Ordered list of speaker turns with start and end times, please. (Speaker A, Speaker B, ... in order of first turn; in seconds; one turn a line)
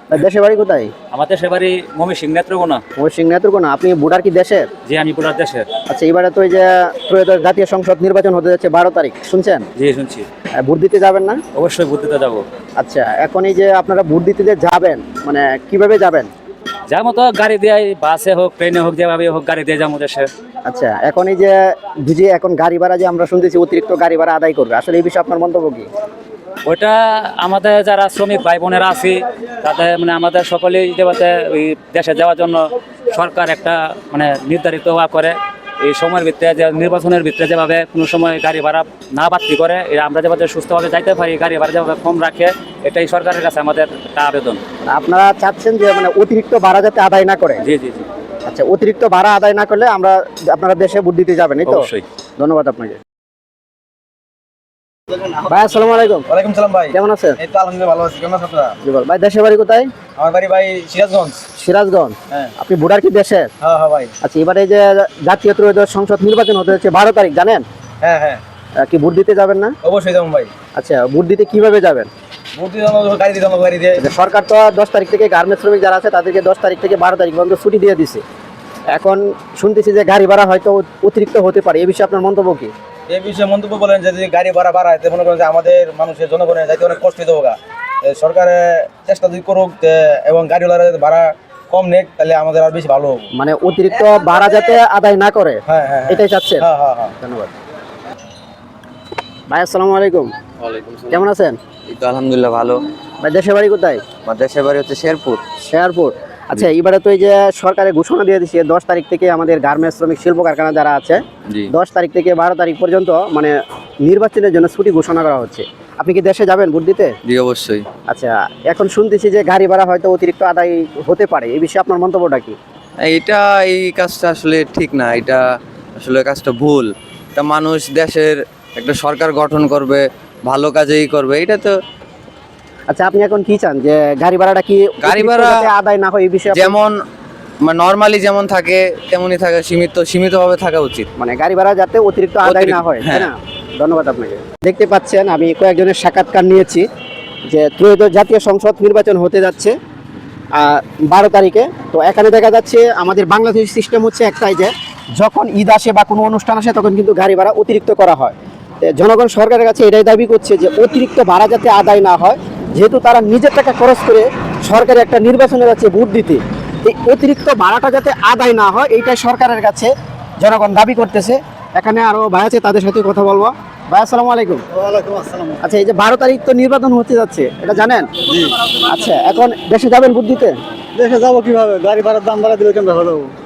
Speaker A: 0.1-0.9
Speaker B: 1.1-2.8
Speaker A: 3.0-4.7
Speaker B: 4.9-5.7
Speaker A: 5.9-9.7
Speaker B: 9.8-10.3
Speaker A: 10.6-11.4
Speaker B: 11.6-12.4
Speaker A: 12.8-16.3
Speaker B: 16.9-20.3
Speaker A: 20.7-25.9
Speaker B: 26.6-44.6
Speaker A: 44.9-47.6
Speaker B: 47.6-48.1
Speaker A: 48.5-53.0
Speaker B: 51.7-52.0
Speaker A: 55.5-56.3
Speaker C: 56.3-58.8
Speaker A: 56.9-57.4
Speaker A: 58.8-59.9
Speaker C: 60.2-61.4
Speaker A: 61.6-63.5
Speaker C: 63.6-64.1
Speaker A: 64.2-67.6
Speaker C: 68.0-68.4
Speaker A: 68.8-69.8
Speaker C: 69.8-70.5
Speaker A: 70.8-72.1
Speaker C: 72.6-74.0
Speaker A: 74.0-78.2
Speaker A: 78.9-82.7
Speaker C: 83.1-93.3
Speaker A: 93.3-96.7
Speaker C: 95.7-97.1
Speaker A: 97.2-97.5
Speaker A: 99.5-100.3
Speaker D: 100.7-101.1
Speaker A: 101.1-101.6
Speaker D: 101.9-102.8
Speaker A: 103.2-104.0
Speaker D: 104.3-105.4
Speaker A: 105.7-117.1
Speaker D: 117.3-117.8
Speaker A: 118.1-122.6
Speaker D: 123.0-125.5
Speaker D: 126.0-131.8
Speaker A: 132.9-136.8
Speaker D: 135.1-135.6
Speaker D: 136.6-137.0
Speaker D: 137.6-141.1
Speaker A: 141.2-146.9
Speaker D: 142.5-143.3
Speaker A: 147.5-149.8
Speaker A: 150.6-174.6
Speaker A: 175.6-178.1
Speaker A: 178.8-180.6
Speaker E: 181.0-183.3